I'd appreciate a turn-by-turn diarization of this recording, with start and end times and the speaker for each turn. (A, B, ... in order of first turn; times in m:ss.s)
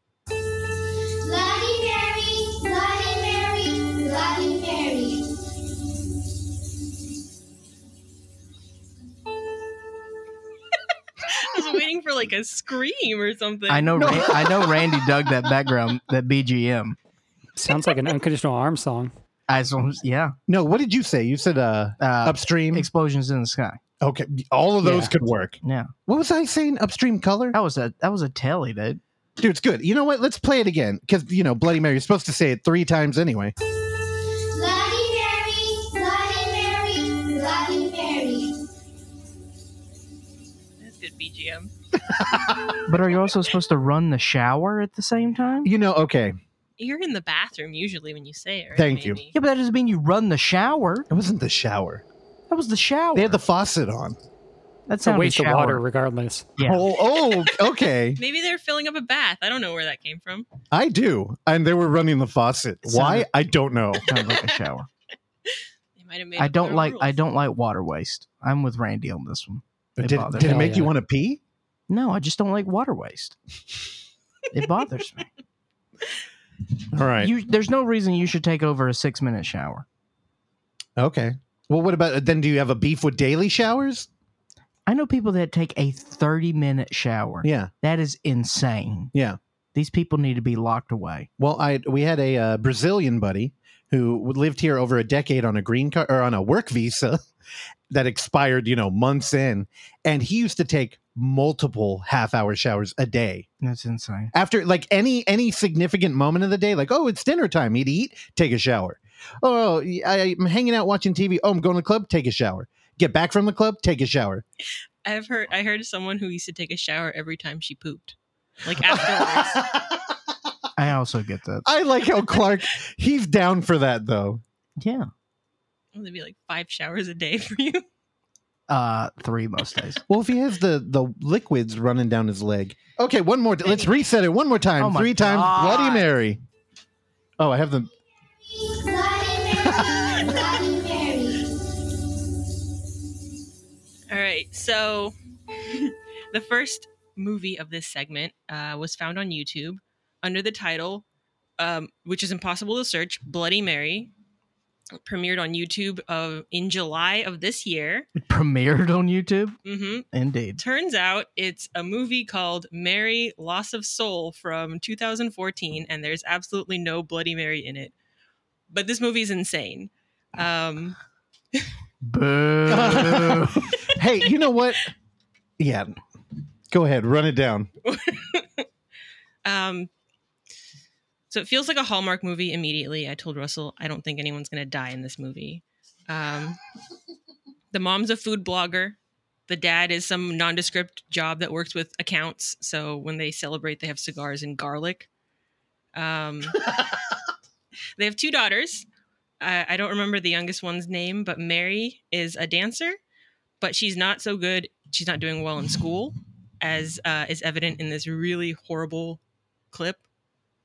0:01.2-0:05.3 A
0:11.2-0:14.6 B
0:13.7-0:17.0 C
0:14.0-0:14.7 D
0:17.6-0:19.1 E
0:19.5-0:20.3 C
0:20.5-0:22.9 D
0:22.0-0:23.8 C
0:24.0-0:27.6 D
0:25.6-0:25.9 C
0:27.5-0:29.0 C
0:29.4-0:33.5 D
0:34.5-0:38.6 A
0:40.8-0:41.7 B
0:42.1-0:42.6 D
0:42.9-0:45.7 C
0:45.6-0:46.4 D
0:46.8-0:49.3 B
0:48.7-0:49.2 D
0:49.3-0:51.1 C
0:51.1-0:52.0 D
0:52.5-0:53.4 C
0:53.1-0:54.2 D
0:54.9-0:55.8 C
0:55.0-0:56.5 E
0:56.6-0:56.8 C
0:56.6-0:58.2 D
0:58.2-1:00.5 B
1:00.7-1:04.0 D
1:02.8-1:03.3 C
1:04.1-1:04.9 C
1:04.1-1:04.4 B
1:05.4-1:07.2 B
1:06.4-1:10.8 C
1:10.0-1:11.4 D
1:10.4-1:10.9 E
1:11.9-1:13.4 C
1:14.5-1:15.3 C
1:16.9-1:17.3 D
1:17.2-1:19.8 C
1:21.0-1:24.1 D
1:24.9-1:29.1 C
1:27.4-1:27.7 D
1:29.7-1:31.3 C
1:31.4-1:37.2 D
1:37.9-1:43.5 D
1:43.6-1:44.3 C
1:44.3-1:54.4 D
1:55.0-1:59.8 B
1:58.8-1:59.9 D
2:00.8-2:01.6 C
2:01.6-2:04.4 D
2:04.8-2:05.1 C
2:05.9-2:07.8 B
2:08.7-2:10.0 C
2:10.1-2:16.4 D
2:13.6-2:14.0 B
2:14.8-2:16.0 C
2:17.4-2:17.9 D
2:18.5-2:21.5 A
2:24.1-2:31.0 B
2:31.6-2:34.1 B
2:35.0-2:38.1 B
2:38.2-2:39.6 C
2:39.6-2:40.1 B
2:40.1-2:40.6 C
2:40.6-2:47.9 B
2:48.7-2:51.0 B
2:52.0-2:53.7 C
2:52.7-2:54.9 D
2:55.6-2:55.9 D
2:56.7-2:57.7 D
2:57.8-2:58.7 B
2:59.4-2:59.9 B
3:01.3-3:06.6 B
3:07.7-3:09.0 B
3:09.5-3:15.1 B
3:15.9-3:16.7 B
3:18.0-3:18.9 B
3:19.4-3:23.0 B
3:23.6-3:30.0 B